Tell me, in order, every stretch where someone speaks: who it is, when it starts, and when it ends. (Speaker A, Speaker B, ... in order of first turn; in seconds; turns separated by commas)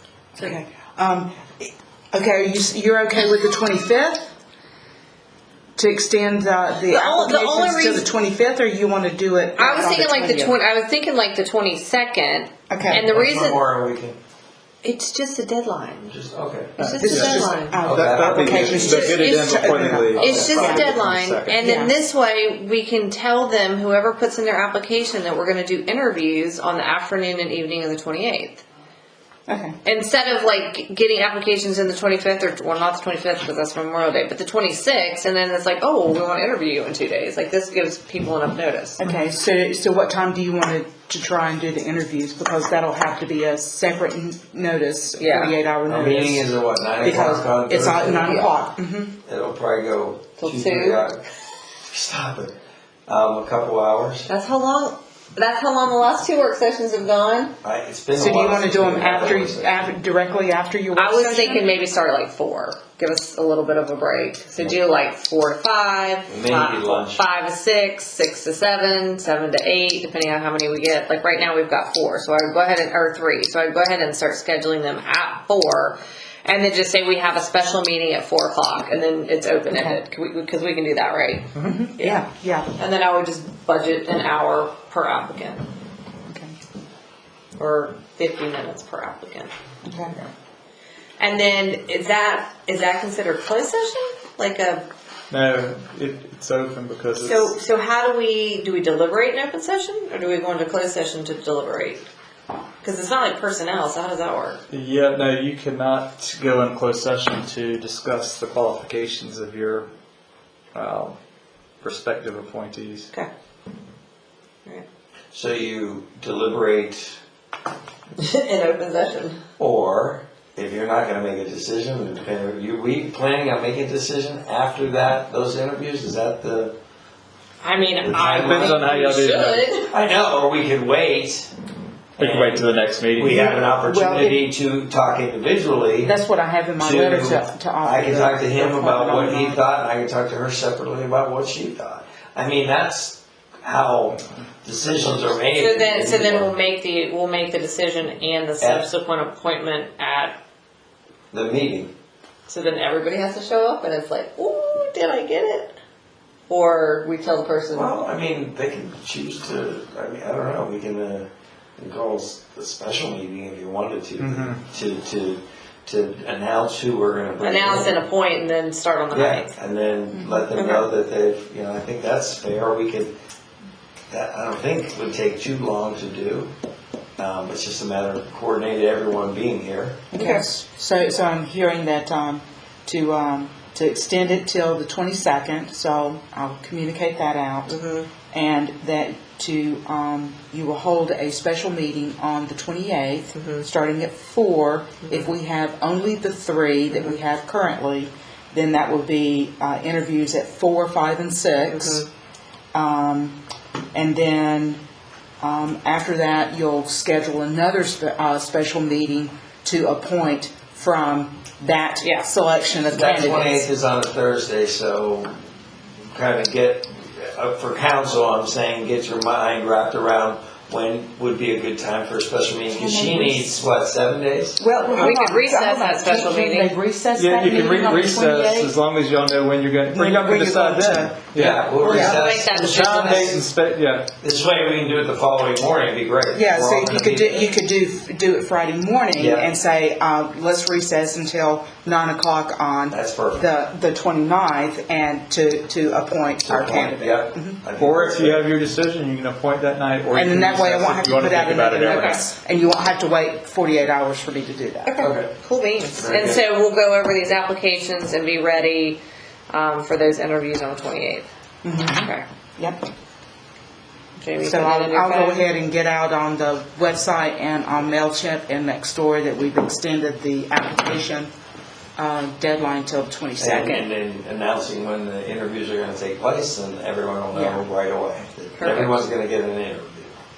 Speaker A: 0.3-4.3, Speaker A: 5.8-10.6, Speaker B: 6.9-8.0, Speaker B: 9.6-13.6, Speaker A: 12.7-13.1, Speaker C: 13.0-14.2, Speaker B: 14.8-16.1, Speaker C: 16.0-19.3, Speaker D: 16.8-21.6, Speaker B: 16.8-17.8, Speaker A: 17.0-20.9, Speaker B: 20.1-28.6, Speaker A: 21.5-21.9, Speaker A: 29.5-29.8, Speaker B: 29.8-39.0, Speaker A: 39.0-49.1, Speaker B: 45.2-45.6, Speaker C: 45.8-48.4, Speaker B: 48.2-48.5, Speaker C: 49.2-51.2, Speaker B: 50.4-51.0, Speaker C: 51.8-52.5, Speaker C: 53.1-54.3, Speaker B: 54.3-57.5, Speaker C: 57.6-59.9, Speaker A: 58.1-61.7, Speaker B: 60.9-82.2, Speaker C: 66.3-67.2, Speaker A: 81.6-82.7, Speaker B: 82.8-85.7, Speaker A: 86.3-86.5, Speaker B: 87.5-89.5, Speaker A: 89.8-90.2, Speaker B: 91.2-94.9, Speaker D: 95.3-97.5, Speaker B: 97.2-102.0, Speaker B: 102.8-104.6, Speaker D: 104.7-109.9, Speaker D: 110.7-111.2, Speaker D: 111.8-113.1, Speaker C: 115.3-117.2, Speaker B: 118.2-119.4, Speaker C: 119.6-126.8, Speaker B: 127.6-129.9, Speaker C: 128.0-128.8, Speaker D: 128.2-129.7, Speaker C: 129.9-131.5, Speaker D: 132.2-133.5, Speaker C: 132.2-136.2, Speaker A: 133.3-134.4, Speaker A: 136.0-139.6, Speaker C: 136.8-146.5, Speaker B: 145.5-150.4, Speaker C: 148.6-148.8, Speaker C: 151.3-151.9, Speaker B: 152.5-155.8, Speaker B: 156.5-157.9, Speaker C: 157.7-168.0, Speaker D: 164.2-164.6, Speaker B: 167.4-169.5, Speaker C: 169.1-173.1, Speaker A: 170.1-170.5, Speaker B: 170.6-170.8, Speaker C: 174.1-176.5, Speaker C: 177.2-180.0, Speaker A: 180.1-187.8, Speaker B: 180.1-180.4, Speaker B: 187.7-188.1, Speaker A: 188.3-202.0, Speaker B: 193.3-193.6, Speaker B: 201.7-202.1, Speaker A: 202.7-203.4, Speaker A: 203.9-204.8, Speaker A: 205.4-213.7, Speaker C: 212.9-215.3, Speaker C: 216.1-224.6, Speaker A: 222.7-223.5, Speaker A: 224.6-228.7, Speaker B: 224.9-226.7, Speaker D: 227.1-231.7, Speaker A: 229.9-231.2, Speaker C: 231.3-233.4, Speaker B: 231.7-233.4, Speaker A: 231.8-232.2, Speaker D: 232.5-234.1, Speaker C: 234.2-237.5, Speaker A: 236.3-247.6, Speaker C: 239.2-239.5, Speaker C: 242.9-243.4, Speaker C: 246.4-248.5, Speaker D: 247.8-252.3, Speaker A: 250.1-254.9, Speaker B: 251.8-252.2, Speaker B: 254.8-261.3, Speaker C: 255.0-255.3, Speaker C: 256.0-256.4, Speaker A: 261.6-262.8, Speaker B: 261.9-262.3, Speaker B: 264.2-265.5, Speaker A: 264.4-271.3, Speaker A: 272.0-273.9, Speaker C: 273.4-280.1, Speaker A: 277.3-277.6, Speaker B: 278.6-279.1